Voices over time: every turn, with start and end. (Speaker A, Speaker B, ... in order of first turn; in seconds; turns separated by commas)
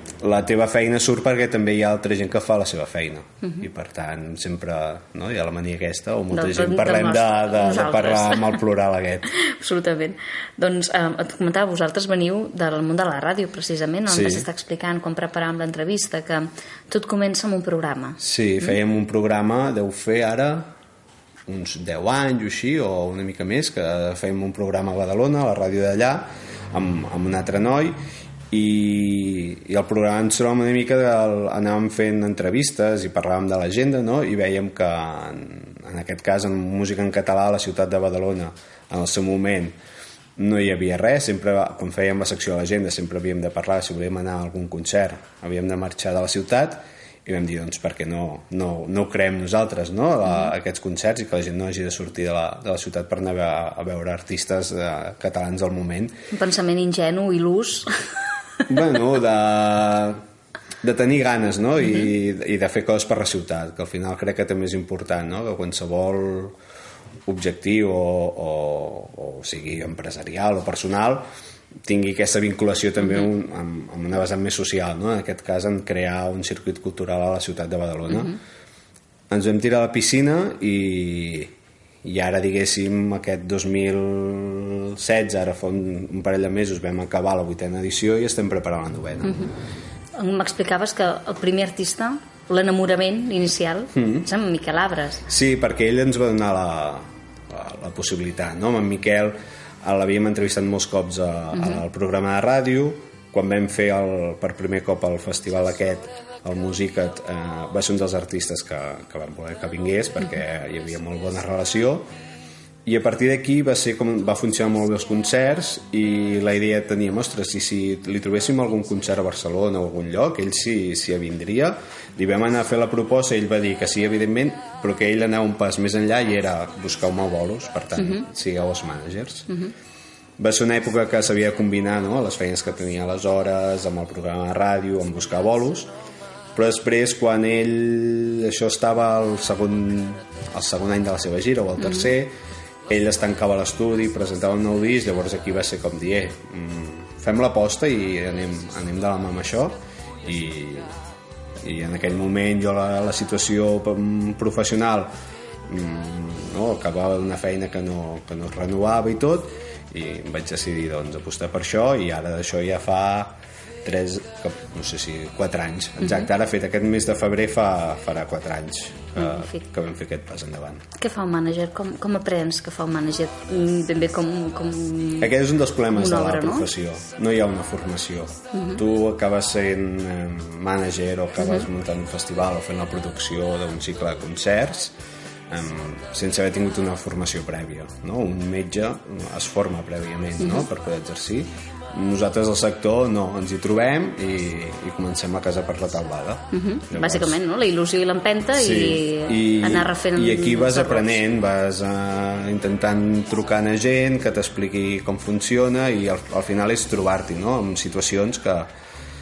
Speaker A: 0.2-9.3, Speaker B: 6.3-8.6, Speaker B: 9.3-18.2, Speaker A: 14.1-14.5, Speaker A: 18.2-20.7, Speaker A: 21.5-28.0, Speaker A: 28.5-39.8, Speaker A: 40.4-56.2, Speaker B: 56.3-57.9, Speaker A: 58.7-60.2, Speaker A: 60.8-66.5, Speaker A: 67.3-71.3, Speaker A: 71.8-78.4, Speaker A: 79.3-89.5, Speaker B: 89.2-89.5, Speaker B: 90.2-95.2, Speaker A: 93.9-94.3, Speaker A: 95.3-112.1, Speaker A: 112.9-129.6, Speaker A: 130.4-135.9, Speaker A: 136.6-142.3, Speaker A: 142.9-150.9, Speaker A: 151.6-155.1, Speaker A: 155.7-170.9, Speaker B: 169.2-169.7, Speaker B: 171.0-175.3, Speaker A: 175.2-184.9, Speaker B: 175.9-176.7, Speaker B: 178.5-178.8, Speaker A: 185.5-197.4, Speaker B: 190.4-190.7, Speaker B: 196.5-201.2, Speaker A: 198.5-208.7